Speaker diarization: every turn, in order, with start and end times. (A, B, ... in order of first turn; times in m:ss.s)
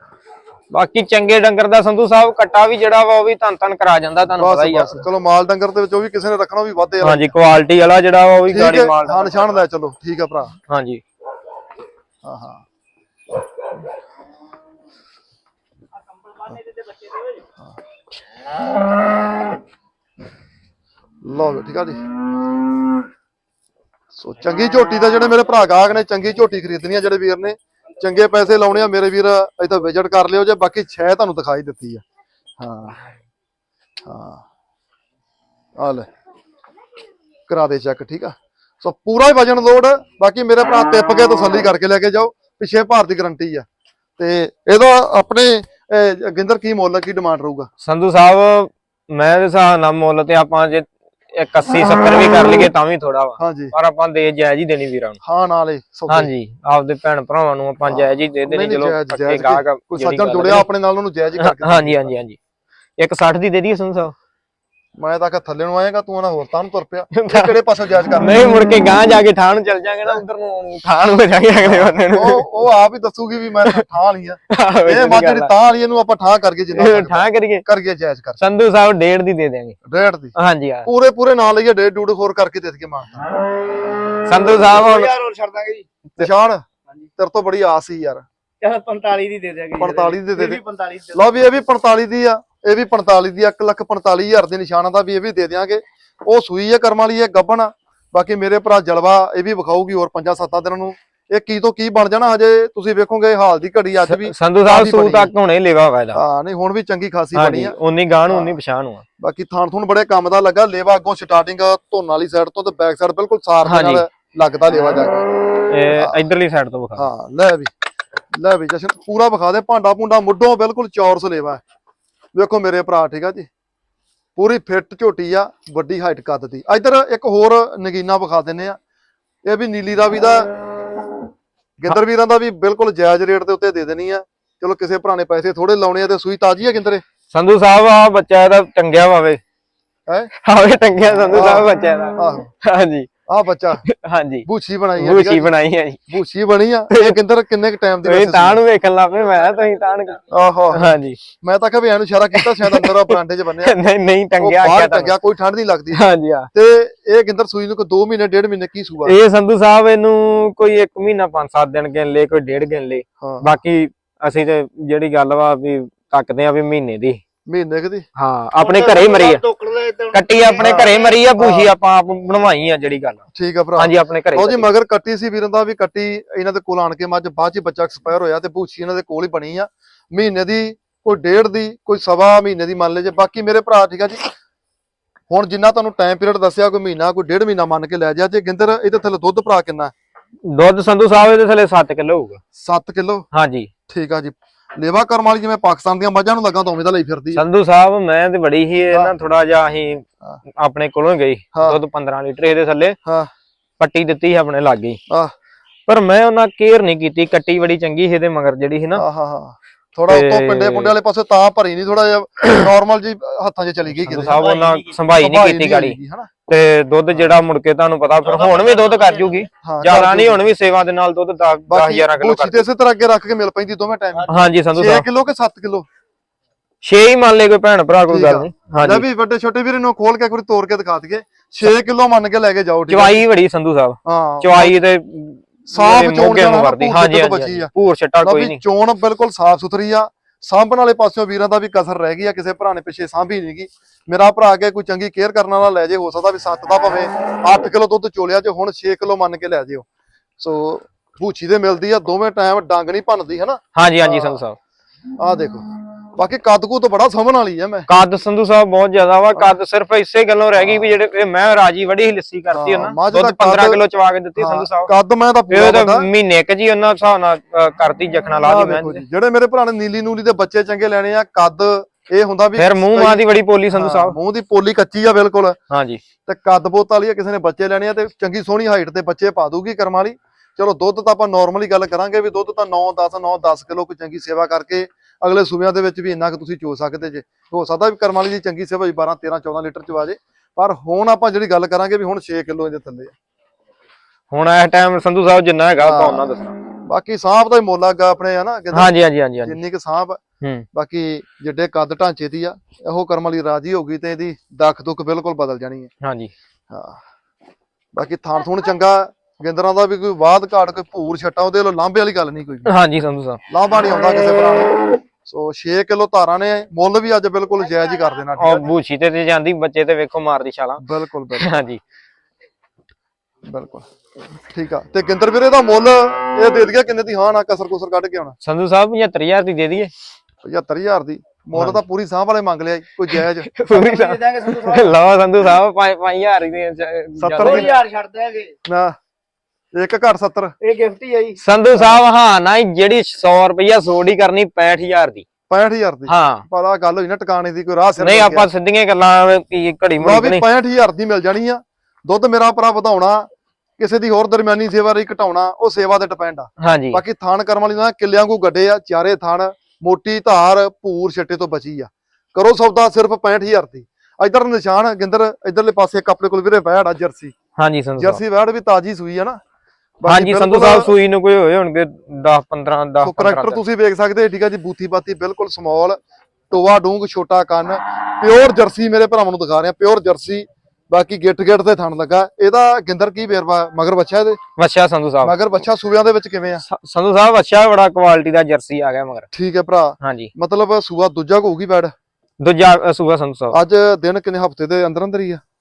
0:00.7-0:05.0 A
0:04.4-0:07.3 B
0:07.0-0:09.5 A
0:08.5-0:10.5 B
0:10.7-0:11.0 A
0:12.2-0:12.6 B
0:16.4-0:17.4 C
0:21.2-0:22.0 B
0:24.1-0:32.0 B
0:32.6-0:33.0 B
0:34.0-0:34.4 B
0:35.8-0:36.1 B
0:37.5-0:43.6 B
0:44.2-0:47.7 B
0:47.8-0:55.2 A
0:53.4-0:53.7 B
0:55.2-0:56.3 B
0:56.1-1:00.7 A
0:57.9-1:02.1 B
1:01.4-1:02.4 A
1:03.0-1:04.1 A
1:05.0-1:08.4 B
1:07.1-1:07.5 A
1:08.2-1:12.5 A
1:11.6-1:18.4 B
1:14.5-1:15.5 A
1:16.8-1:17.6 A
1:18.4-1:19.8 A
1:19.8-1:20.3 B
1:20.3-1:20.9 A
1:20.8-1:23.2 B
1:24.2-1:25.1 A
1:24.5-1:25.9 C
1:26.2-1:26.6 B
1:27.2-1:28.2 B
1:28.6-1:31.4 C
1:29.8-1:30.6 B
1:31.1-1:45.3 B
1:44.1-1:46.2 A
1:46.1-1:47.8 B
1:47.3-1:49.0 A
1:48.3-1:48.5 B
1:49.2-1:55.2 B
1:53.6-1:54.0 A
1:55.7-1:57.0 A
1:55.9-1:56.2 B
1:57.0-1:57.7 B
1:58.3-2:01.6 B
2:02.3-2:03.5 B
2:04.4-2:08.8 B
2:09.4-2:10.5 B
2:11.8-2:17.0 B
2:17.3-2:19.4 A
2:20.4-2:23.1 A
2:21.2-2:22.5 B
2:23.3-2:23.8 B
2:23.8-2:24.4 A
2:24.4-2:25.5 B
2:25.0-2:26.1 A
2:26.1-2:28.6 B
2:26.9-2:27.2 A
2:28.0-2:30.2 A
2:30.3-2:33.7 B
2:30.7-2:31.2 A
2:32.3-2:35.1 A
2:34.4-2:39.2 B
2:35.9-2:36.5 A
2:39.0-2:47.2 A
2:43.2-2:43.5 B
2:47.5-2:48.0 B
2:48.2-2:49.4 A
2:48.6-2:51.2 C
2:50.1-2:53.2 A
2:50.6-2:51.7 B
2:53.3-3:04.3 B
2:53.8-2:54.7 A
3:05.3-3:09.9 B
3:10.5-3:12.4 A
3:12.6-3:13.2 B
3:13.3-3:13.7 A
3:13.9-3:17.4 B
3:17.3-3:20.0 A
3:20.6-3:23.0 A
3:23.0-3:23.3 B
3:23.8-3:25.0 A
3:25.9-3:29.0 A
3:28.9-3:34.4 B
3:30.1-3:30.9 A
3:34.0-3:36.0 A
3:34.3-3:35.0 C
3:35.2-3:36.3 B
3:36.5-3:42.6 A
3:38.2-3:39.5 C
3:39.6-3:40.4 B
3:41.7-3:45.9 B
3:44.3-3:45.0 A
3:46.8-3:49.0 A
3:48.1-3:53.2 B
3:52.9-3:58.6 A
3:54.0-3:54.8 B
3:55.7-3:57.7 B
3:58.2-4:09.8 B
4:10.4-4:14.4 B
4:13.8-4:14.6 A
4:15.2-4:15.6 B
4:16.2-4:17.9 B
4:17.9-4:24.9 A
4:20.6-4:20.9 B
4:22.5-4:23.8 B
4:24.4-4:26.1 B
4:25.5-4:29.0 A
4:28.4-4:35.6 B
4:32.6-4:34.2 A
4:35.7-4:36.0 A
4:36.2-4:53.1 B
4:54.3-4:56.5 A
4:55.8-4:56.3 B
4:56.9-4:58.9 B
4:58.7-4:59.6 A
4:59.4-5:00.2 B
5:00.4-5:00.6 A
5:00.7-5:05.9 B
5:06.0-5:06.3 A
5:06.7-5:07.0 B
5:08.0-5:12.7 B
5:12.6-5:13.4 A
5:13.5-5:18.7 B
5:18.4-5:20.8 A
5:20.8-5:21.5 B
5:21.3-5:21.8 A
5:23.4-5:23.9 B
5:24.4-5:28.4 B
5:28.4-5:29.9 A
5:30.4-5:33.5 B
5:31.6-5:31.8 A
5:33.1-5:37.7 A
5:33.7-5:34.9 C
5:37.2-5:37.7 B
5:37.4-5:38.6 C
5:38.6-5:38.9 B
5:39.8-5:40.5 B
5:40.6-5:41.4 C
5:41.4-5:45.2 A
5:41.8-5:42.0 B
5:45.5-5:48.5 B
5:46.1-5:46.4 A
5:48.0-5:50.4 A
5:50.0-6:07.3 B
5:56.6-5:57.0 A
6:07.6-6:08.2 A
6:08.0-6:09.4 B
6:10.0-6:10.9 B
6:10.0-6:13.6 A
6:13.0-6:24.4 B
6:24.6-6:25.3 A
6:25.2-6:26.6 B
6:26.6-6:29.3 A
6:29.3-6:31.9 B
6:30.0-6:30.3 A
6:32.4-6:33.6 A
6:33.5-6:35.4 B